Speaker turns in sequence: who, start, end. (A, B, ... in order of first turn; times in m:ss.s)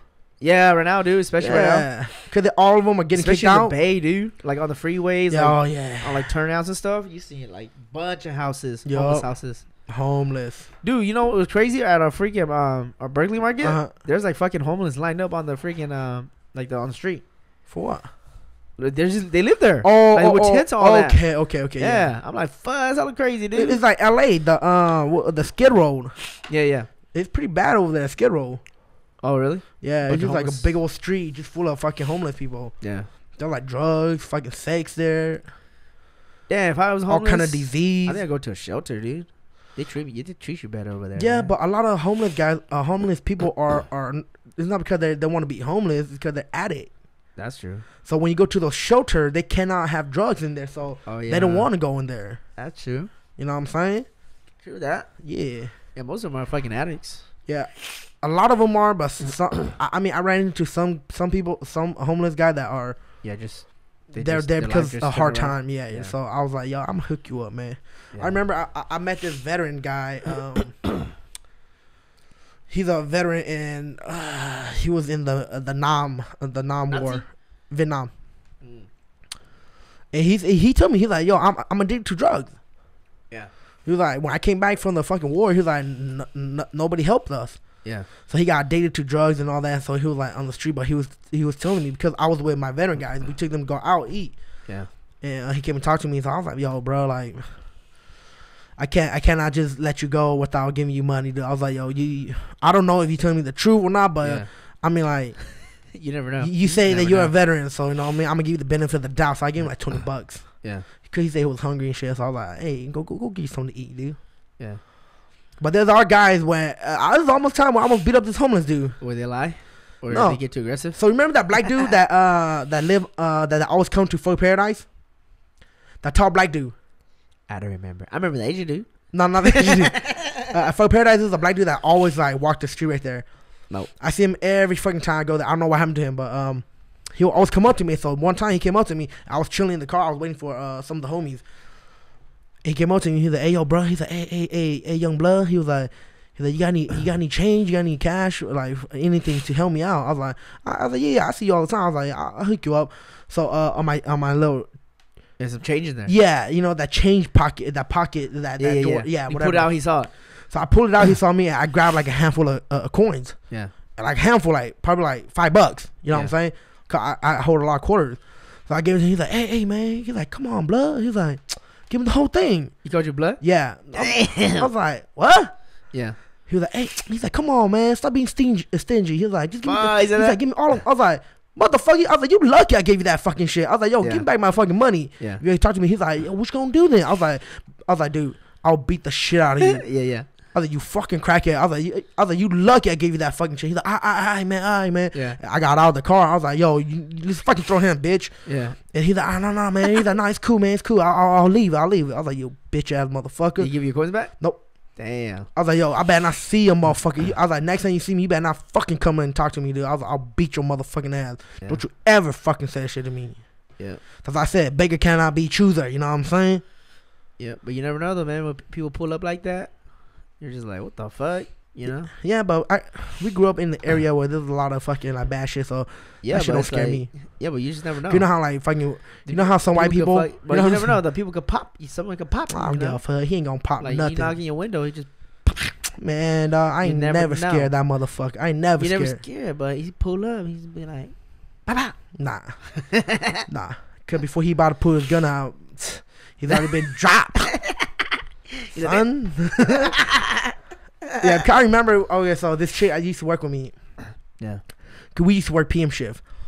0:00.4-0:01.9 A
0:01.4-0:03.7 B
0:03.1-0:09.6 A
0:05.3-0:06.3 B
0:08.8-0:09.3 B
0:09.9-0:10.7 B
0:10.8-0:17.2 A
0:13.6-0:13.9 B
0:17.7-0:18.1 B
0:18.8-0:21.2 A
0:19.8-0:22.1 B
0:21.8-0:23.8 A
0:23.5-0:26.1 B
0:26.5-0:26.9 A
0:27.1-0:28.6 B
0:29.2-0:30.7 A
0:29.8-0:32.7 B
0:32.8-0:33.1 A
0:33.4-0:35.4 B
0:36.5-0:41.5 A
0:37.1-0:38.2 B
0:41.2-0:46.9 B
0:47.4-0:47.8 A
0:48.0-0:52.4 B
0:51.1-0:51.7 A
0:52.6-0:53.1 A
0:53.4-0:54.0 B
0:54.6-0:55.1 A
0:55.2-0:55.7 B
0:55.9-0:57.2 A
0:57.5-1:03.0 B
1:03.2-1:06.1 A
1:04.2-1:10.9 B
1:12.7-1:18.1 B
1:16.9-1:17.2 A
1:18.6-1:18.9 A
1:20.1-1:22.5 B
1:23.8-1:34.4 B
1:35.2-1:37.6 B
1:38.8-1:45.6 B
1:44.2-1:44.5 A
1:45.6-1:47.3 A
1:46.4-1:54.2 B
1:55.6-1:59.0 B
1:59.0-2:01.0 A
2:00.1-2:04.9 B
2:06.0-2:06.7 B
2:07.5-2:10.4 A
2:09.1-2:13.3 B
2:13.9-2:21.4 B
2:22.6-2:34.7 B
2:35.4-2:36.1 A
2:36.0-2:39.8 B
2:38.6-2:40.1 A
2:40.5-2:43.4 B
2:44.0-2:52.7 B
2:52.8-2:53.4 A
2:53.4-2:55.5 B
2:53.9-2:54.7 A
2:56.5-3:18.3 B
2:59.6-3:00.4 A
3:09.6-3:10.2 A
3:15.1-3:15.4 A
3:18.4-3:18.8 A
3:18.9-3:23.7 B
3:23.6-3:24.3 A
3:25.0-3:25.5 A
3:25.5-3:33.5 B
3:34.2-3:36.6 B
3:37.4-3:42.1 A
3:42.1-3:47.1 B
3:46.2-3:48.3 A
3:48.1-3:50.9 B
3:49.2-3:53.0 A
3:52.5-3:54.4 B
3:53.8-3:55.7 A
3:56.0-3:59.2 B
3:56.8-3:57.7 A
3:58.8-4:02.0 A
4:02.1-4:02.6 B
4:02.8-4:03.4 A
4:03.5-4:07.5 B
4:07.5-4:07.8 A
4:08.6-4:10.5 A
4:08.8-4:09.9 B
4:11.2-4:13.7 B
4:15.1-4:16.2 B